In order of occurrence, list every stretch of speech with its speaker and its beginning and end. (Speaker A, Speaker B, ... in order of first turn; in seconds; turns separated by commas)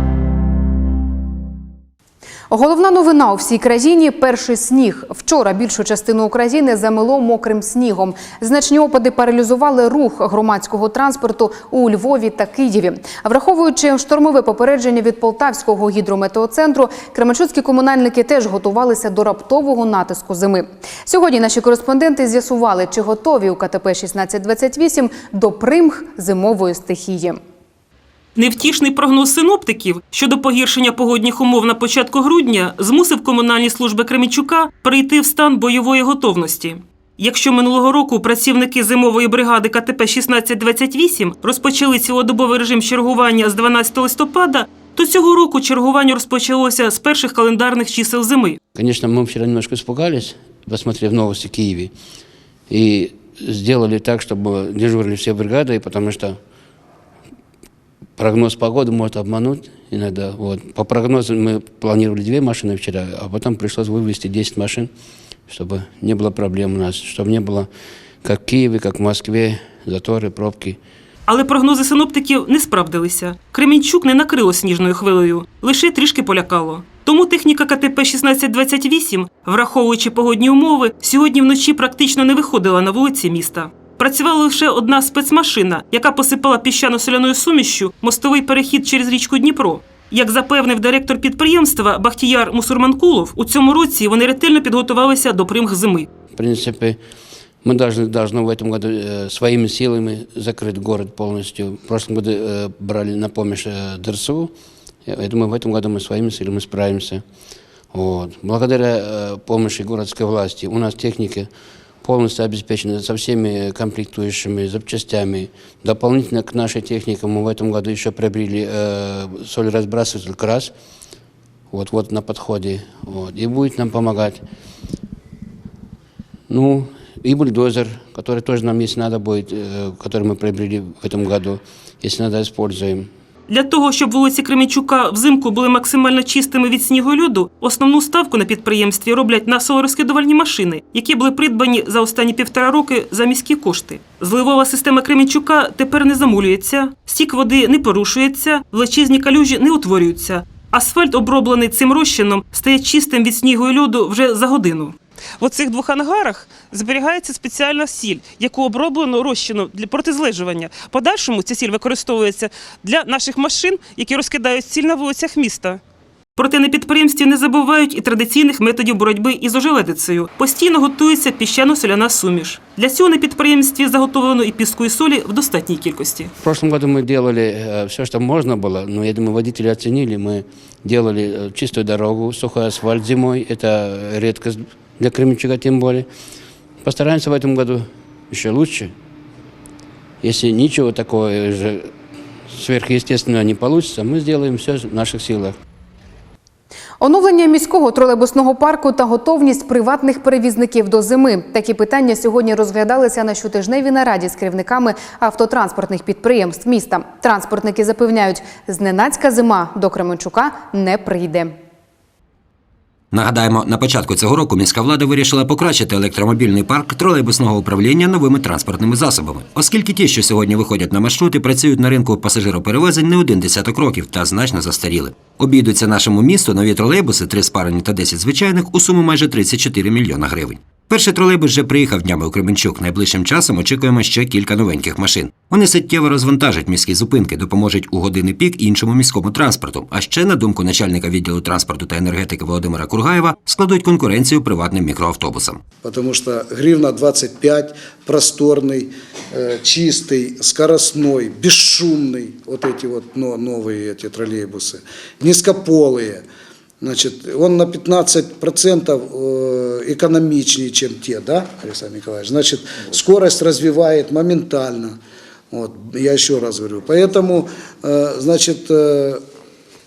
Speaker A: 2.5-27.4, Speaker B: 28.4-48.6, Speaker C: 48.7-51.9, Speaker C: 52.7-56.4, Speaker C: 58.2-64.9, Speaker C: 65.5-67.7, Speaker C: 68.2-70.8, Speaker B: 71.3-96.1, Speaker C: 96.3-97.0, Speaker C: 97.6-104.5, Speaker C: 105.0-107.2, Speaker C: 107.9-111.5, Speaker C: 112.0-120.7, Speaker C: 121.7-124.4, Speaker C: 126.5-133.1, Speaker B: 133.5-165.8, Speaker B: 166.3-176.3, Speaker C: 176.4-186.1, Speaker C: 186.8-188.9, Speaker C: 190.2-191.9, Speaker C: 192.5-195.6, Speaker A: 197.0-211.5, Speaker D: 213.1-245.6, Speaker E: 245.8-256.2, Speaker E: 256.8-265.0, Speaker E: 265.5-269.2